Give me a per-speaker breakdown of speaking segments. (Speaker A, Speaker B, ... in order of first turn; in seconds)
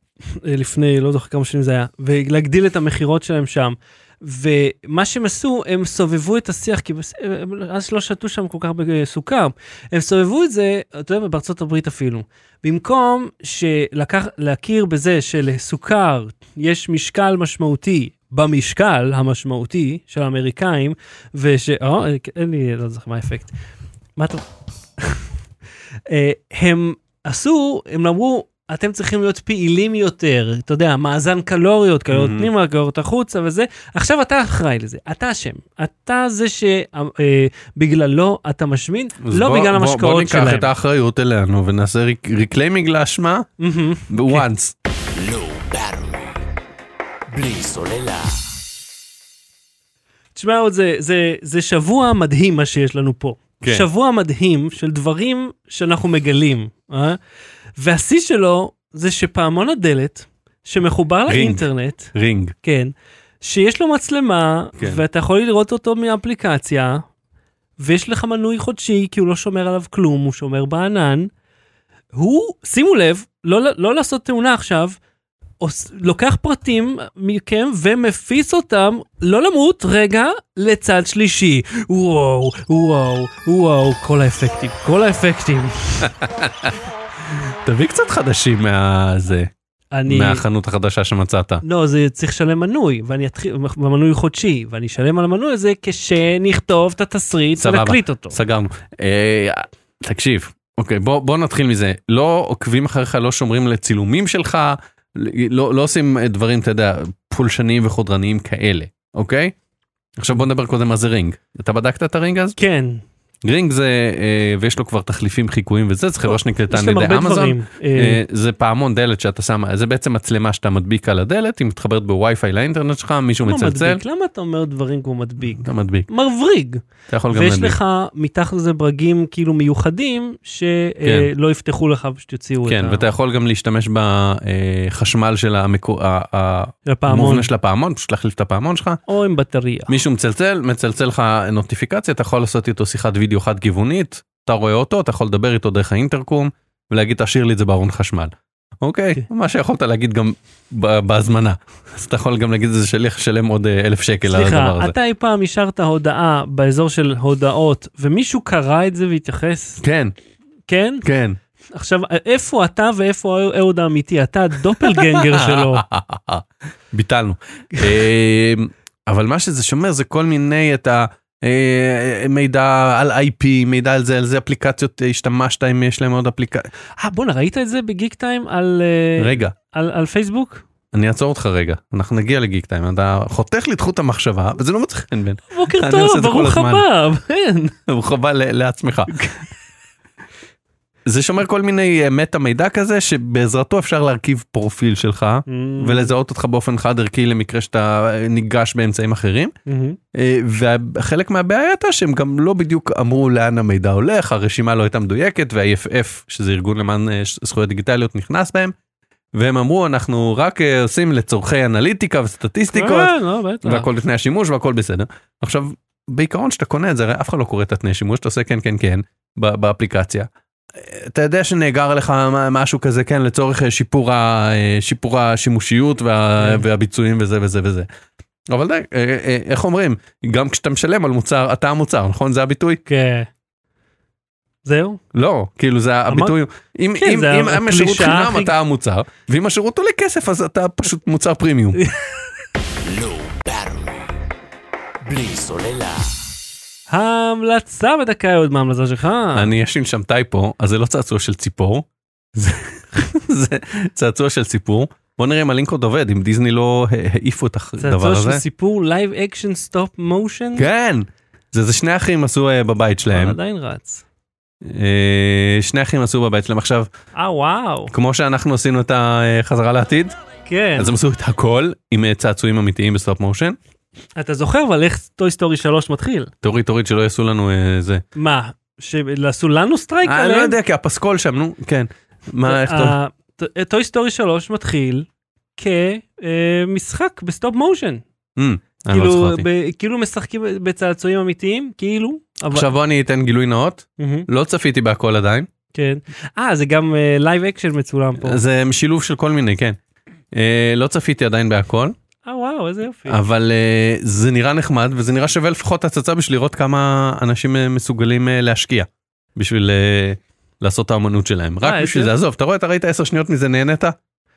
Speaker A: 0.3-23.5, 24.1-24.4, 25.0-25.2, 26.1-40.7, 43.6-44.5, 50.3-57.2, 57.8-67.0, 67.8-71.3, 72.1-75.0, 75.6-86.1, 89.9-90.4, 91.6-98.4, 112.6-113.0, 116.3-118.2, 123.4-133.1, 136.8-137.5, 139.1-139.9, 154.3-159.8, 160.7-161.1, 161.7-165.9, 177.0-180.6, 185.5-187.8, 195.5-196.1, 199.7-200.0, 212.7-213.9, 226.4-226.6, 232.8-233.3, 234.6-235.0, 236.1-236.3, 237.0-238.5, 241.8-242.1, 246.9-249.5, 257.8-260.7, 263.1-264.0, 267.1-267.9, 270.5-270.9, 274.1-276.3, 278.1-280.6, 282.4-288.0, 288.9-292.7, 294.0-294.3, 295.7-298.4, 302.2-303.2, 311.6-312.1
Speaker B: 32.1-32.5, 39.2-43.5, 44.1-44.7, 53.6-53.9, 61.3-62.5, 86.0-86.7, 87.3-89.5, 90.1-91.6, 97.6-109.5, 110.2-112.6, 113.4-124.0, 125.6-126.1, 127.1-127.8, 131.0-131.3, 132.7-139.0, 139.9-154.9, 159.8-160.1, 161.0-161.4, 164.7-176.7, 179.2-179.5, 180.9-186.8, 187.9-189.2, 191.0-199.5, 200.1-208.7, 209.3-227.9, 228.5-232.8, 235.1-241.8, 249.3-258.4, 260.6-263.4, 264.6-266.9, 267.9-270.1, 270.8-273.6, 276.4-278.0, 280.0-282.9, 288.4-289.5, 292.5-295.5, 298.1-299.8, 300.3-301.9, 303.1-313.9
Speaker C: 45.1-46.4, 47.3-48.5, 242.8-244.2, 245.0-246.2